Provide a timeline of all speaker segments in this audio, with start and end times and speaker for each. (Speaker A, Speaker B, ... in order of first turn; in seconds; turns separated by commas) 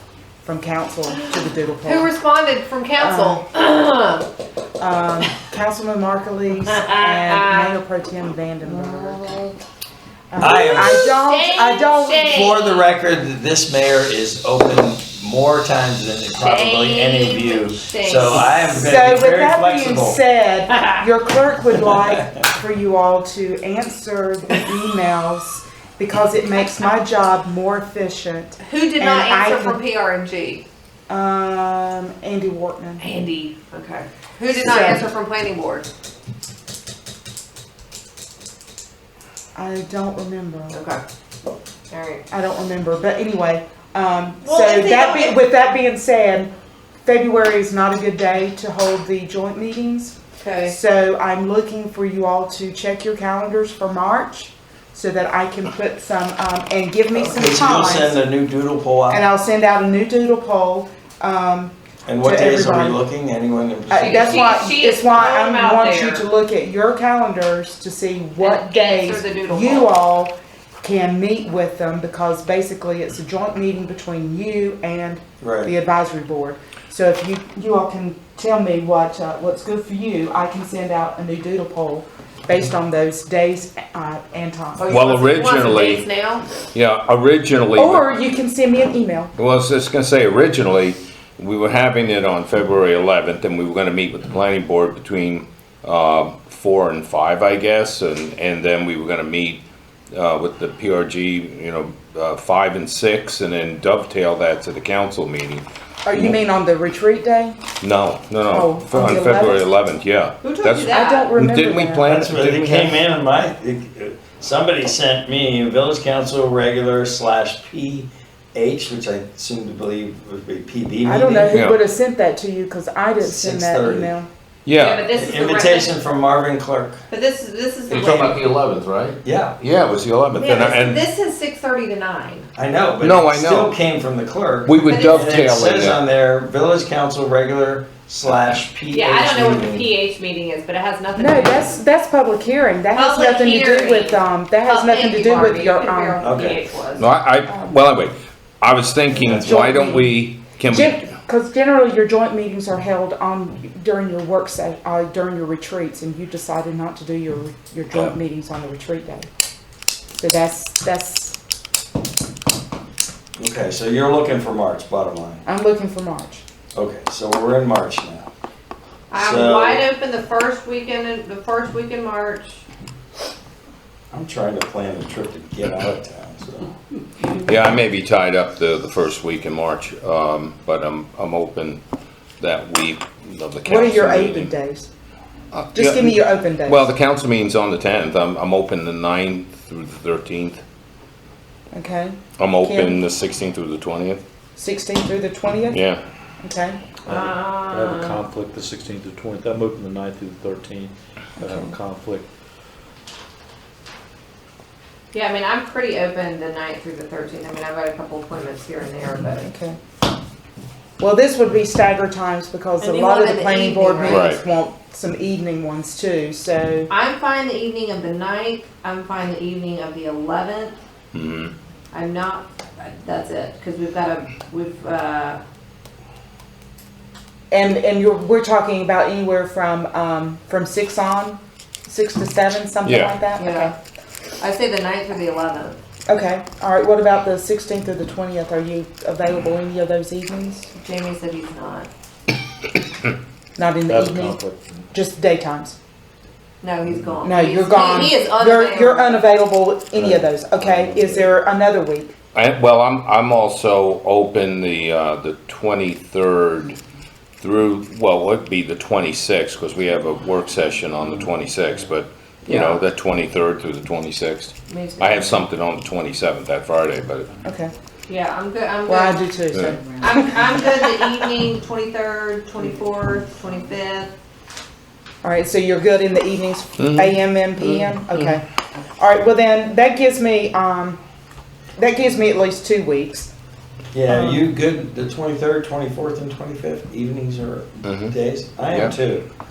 Speaker A: 0.4-2.1, Speaker B: 1.1-4.3, Speaker A: 3.0-3.4, Speaker A: 4.8-9.3, Speaker B: 6.6-7.8, Speaker B: 8.7-9.6, Speaker A: 10.3-12.3, Speaker C: 10.4-11.1, Speaker B: 10.4-12.9, Speaker C: 12.2-20.2, Speaker B: 16.4-18.5, Speaker A: 18.5-29.8, Speaker B: 20.7-21.0, Speaker B: 28.6-30.6, Speaker A: 31.1-33.1, Speaker B: 33.0-35.9, Speaker A: 34.5-35.0, Speaker A: 39.5-40.8, Speaker B: 40.7-41.0, Speaker B: 41.9-42.2, Speaker A: 42.3-46.5, Speaker B: 44.4-45.4, Speaker A: 47.0-58.2, Speaker B: 50.4-50.8, Speaker C: 57.1-59.2, Speaker A: 59.1-63.0, Speaker C: 62.0-64.5, Speaker A: 63.9-85.0, Speaker B: 63.9-66.2, Speaker B: 68.4-69.9, Speaker C: 75.4-75.7, Speaker B: 84.8-86.5, Speaker D: 84.9-86.0, Speaker D: 86.7-88.1, Speaker A: 87.8-89.3, Speaker D: 89.3-106.4, Speaker A: 106.0-107.6, Speaker D: 107.8-113.0, Speaker A: 108.5-109.7, Speaker B: 110.4-111.3, Speaker A: 110.9-112.2, Speaker C: 112.0-121.6, Speaker A: 121.0-124.3, Speaker D: 121.5-121.8, Speaker C: 123.2-124.1, Speaker D: 124.7-125.1, Speaker B: 124.8-126.0, Speaker C: 125.1-127.0, Speaker B: 127.1-128.5, Speaker D: 127.9-131.1, Speaker C: 129.2-129.6, Speaker B: 130.3-132.5, Speaker C: 132.6-139.9, Speaker D: 133.0-133.7, Speaker D: 134.6-136.0, Speaker B: 134.8-135.3, Speaker B: 138.9-141.8, Speaker A: 141.2-146.3, Speaker B: 142.9-147.1, Speaker C: 146.2-146.6, Speaker D: 146.9-151.1, Speaker A: 147.5-147.8, Speaker C: 149.1-149.5, Speaker A: 149.4-159.3, Speaker A: 160.1-161.3, Speaker C: 163.4-165.4, Speaker A: 165.4-166.4, Speaker C: 166.7-168.3, Speaker B: 169.1-172.6, Speaker C: 169.1-169.8, Speaker C: 174.1-176.7, Speaker D: 177.3-181.8, Speaker D: 182.4-184.5, Speaker A: 183.6-184.9, Speaker D: 185.5-190.6, Speaker A: 185.7-186.9, Speaker A: 191.7-193.0, Speaker D: 192.4-194.2, Speaker A: 194.6-195.8, Speaker D: 195.7-196.0, Speaker A: 196.4-196.8, Speaker B: 197.0-198.2, Speaker E: 197.1-202.3, Speaker A: 201.4-201.7, Speaker B: 205.1-209.5, Speaker A: 209.4-209.8, Speaker A: 211.0-216.9, Speaker B: 212.8-214.4, Speaker D: 214.0-214.4, Speaker B: 216.9-220.8, Speaker D: 221.1-221.5, Speaker B: 221.9-225.4, Speaker A: 227.5-233.7, Speaker D: 232.8-233.2, Speaker B: 233.3-233.7, Speaker B: 234.4-235.8, Speaker A: 236.1-240.7, Speaker B: 240.7-241.9, Speaker A: 243.6-245.8, Speaker E: 243.9-244.8, Speaker B: 246.6-249.2, Speaker A: 247.2-252.1, Speaker E: 250.0-251.3, Speaker D: 252.3-256.8, Speaker D: 257.4-267.3, Speaker B: 262.4-262.8, Speaker B: 264.7-265.4, Speaker A: 267.4-267.7, Speaker B: 268.1-269.2, Speaker A: 268.8-269.8, Speaker D: 269.5-269.8, Speaker B: 270.0-274.1, Speaker A: 275.2-278.4, Speaker D: 276.8-277.2, Speaker A: 279.0-281.0, Speaker A: 281.8-283.3, Speaker C: 283.9-289.2, Speaker A: 284.1-284.4, Speaker D: 287.8-288.1, Speaker D: 288.7-288.9